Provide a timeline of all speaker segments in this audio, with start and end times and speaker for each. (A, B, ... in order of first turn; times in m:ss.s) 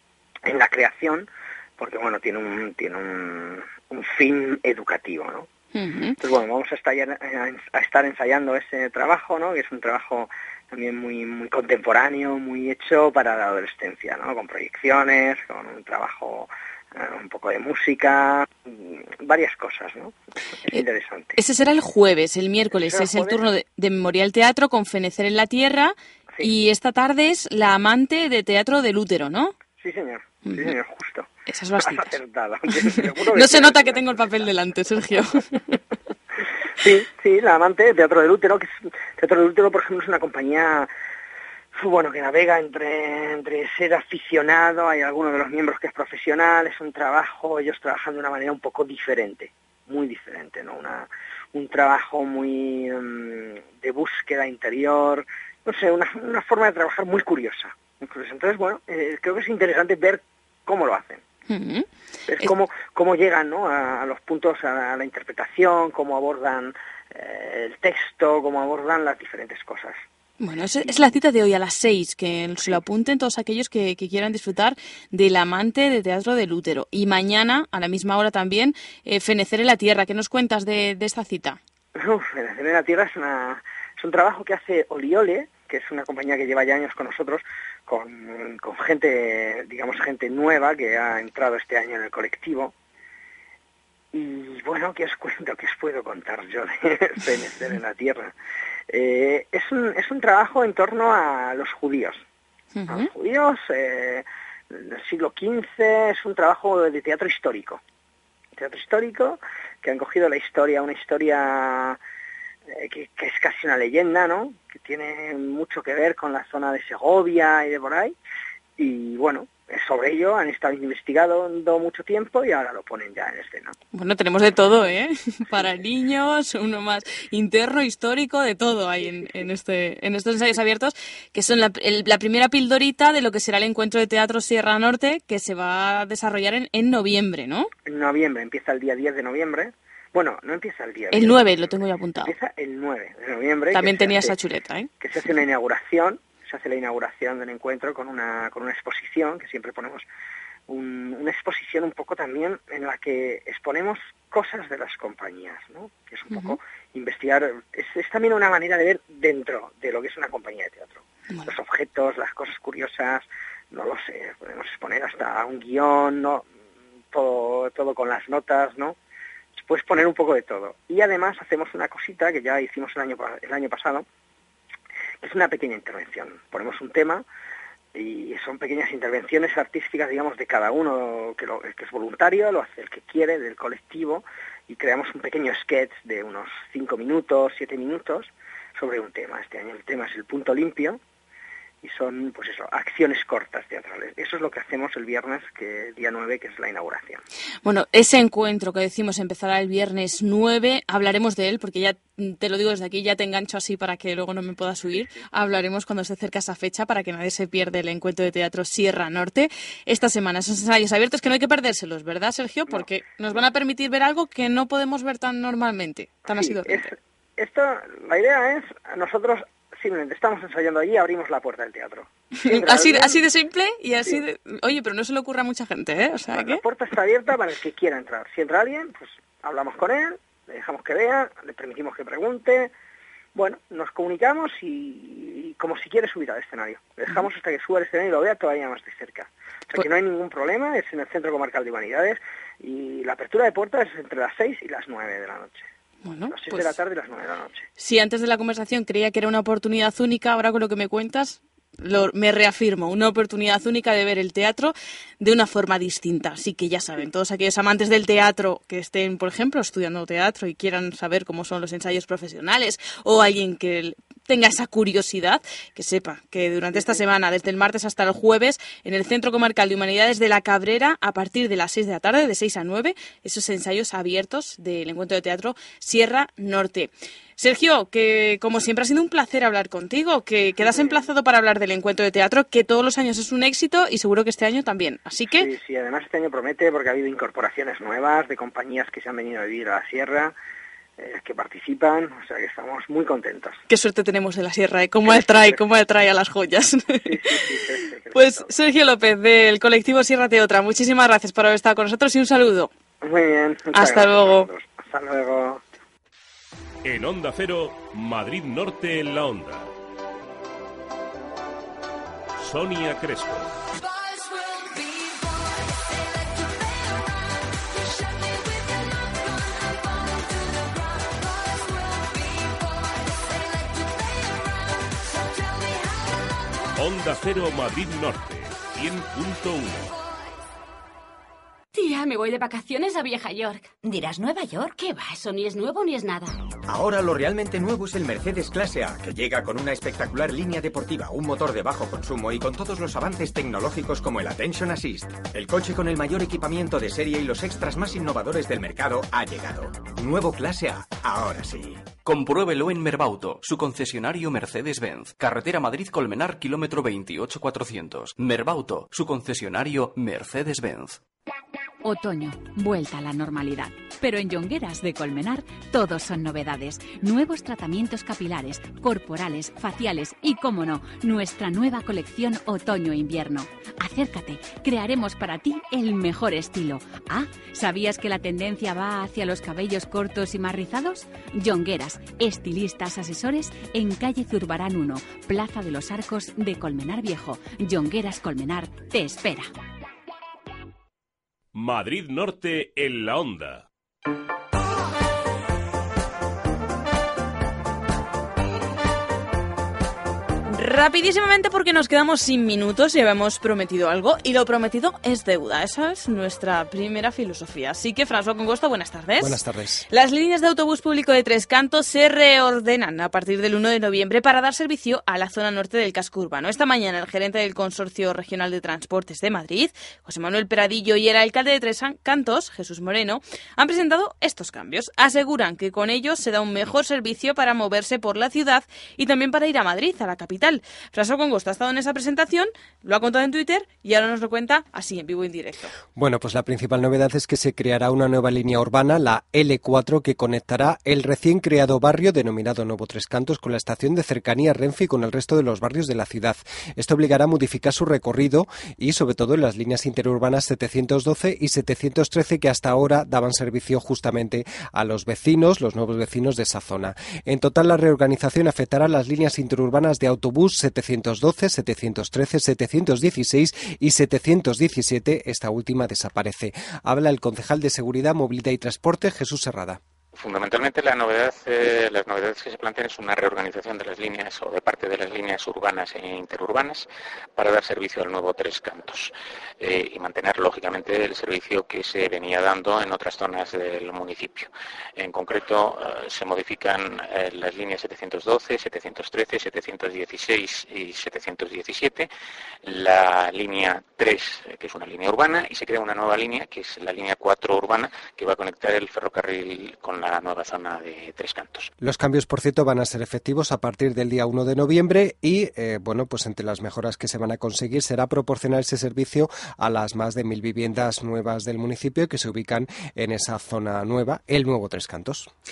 0:00.4-0:05.5 A
0:05.7-0:06.2 B
0:06.2-0:21.4 A
0:21.4-0:29.5 B
0:22.7-0:23.4 A
0:29.8-0:31.3 A
0:30.4-0:30.7 B
0:31.5-0:32.2 B
0:31.8-0:34.5 A
0:32.8-0:35.5 B
0:36.8-0:40.9 A
0:41.7-1:01.2 A
1:01.5-1:01.8 B
1:02.3-1:10.0 A
1:10.4-1:21.6 B
1:22.0-1:32.7 A
1:34.1-1:38.3 A
1:38.9-1:42.2 A
1:42.7-1:43.1 B
1:42.9-1:47.8 A
1:48.6-1:52.0 A
1:52.7-1:58.1 A
1:58.8-2:03.7 A
2:03.9-2:17.7 B
2:17.9-2:24.4 A
2:21.1-2:22.3 B
2:23.7-2:24.9 B
2:25.0-2:30.0 A
2:30.7-2:46.4 A
2:36.3-2:36.6 B
2:47.1-2:49.0 A
2:49.6-2:54.0 A
2:55.2-2:57.2 A
2:57.9-3:11.0 A
3:11.8-3:17.2 A
3:17.6-3:36.9 B
3:36.3-3:43.2 A
3:42.4-3:46.6 B
3:46.3-3:52.7 A
3:53.3-4:05.6 A
4:06.0-4:06.8 B
4:06.3-4:07.6 A
4:07.8-4:45.5 B
4:40.6-4:41.1 A
4:45.3-4:50.3 A
4:51.0-4:53.6 A
4:53.7-4:57.5 B
4:55.1-4:55.6 A
4:57.0-4:58.5 A
4:58.1-5:02.7 B
5:03.0-5:05.6 A
5:03.7-5:04.5 B
5:06.8-5:09.7 C
5:12.4-5:13.5 C
5:25.6-5:26.0 D
5:26.8-5:29.9 C
5:31.7-5:36.4 D
5:36.7-5:51.8 E
5:52.0-6:01.0 F
6:01.8-6:29.5 G
6:31.5-6:33.6 C
6:40.5-7:15.7 B
6:49.2-6:49.9 H
7:15.9-7:49.8 H
7:50.2-8:12.1 I
8:12.6-8:21.7 I
8:21.8-8:35.3 H